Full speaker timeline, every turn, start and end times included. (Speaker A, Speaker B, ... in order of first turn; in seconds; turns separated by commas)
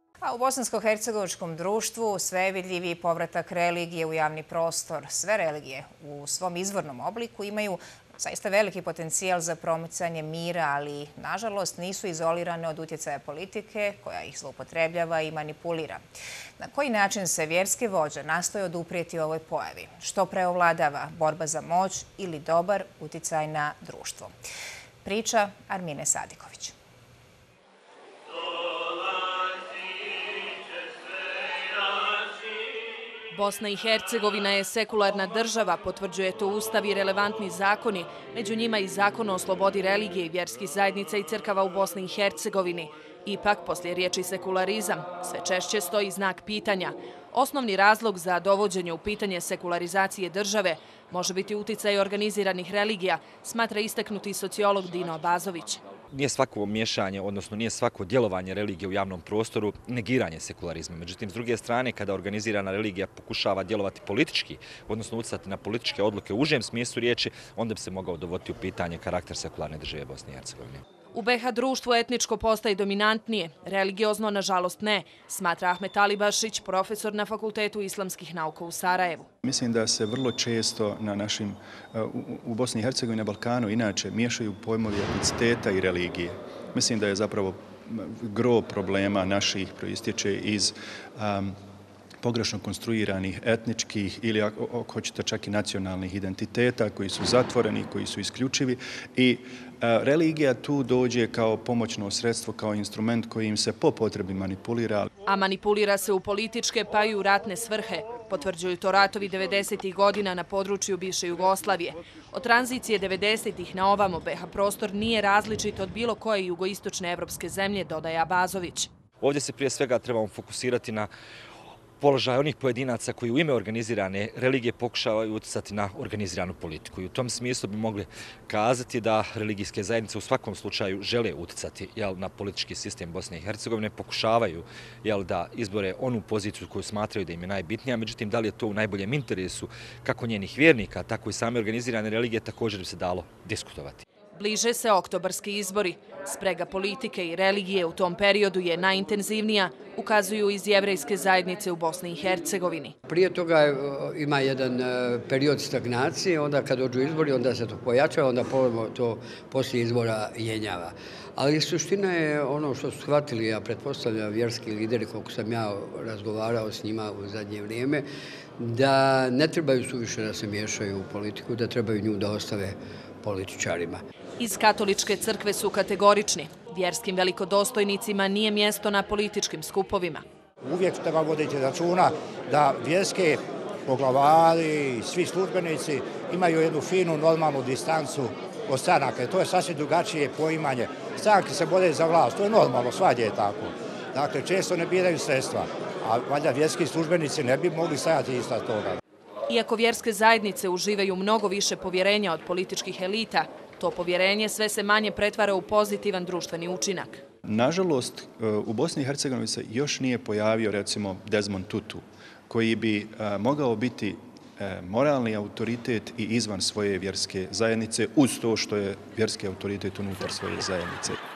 Speaker A: 0.2-16.0, Speaker A: 16.6-24.3, Speaker A: 25.0-26.7, Speaker B: 33.3-55.8, Speaker C: 56.1-70.8, Speaker B: 71.1-79.3, Speaker D: 79.5-91.6, Speaker D: 92.2-105.1, Speaker B: 105.3-118.9, Speaker C: 119.2-121.1, Speaker C: 122.0-144.0, Speaker B: 144.3-152.9, Speaker E: 153.1-168.1, Speaker E: 168.6-174.0, Speaker B: 174.4-180.2, Speaker F: 180.6-199.0, Speaker B: 199.5-207.2, Speaker D: 207.4-221.2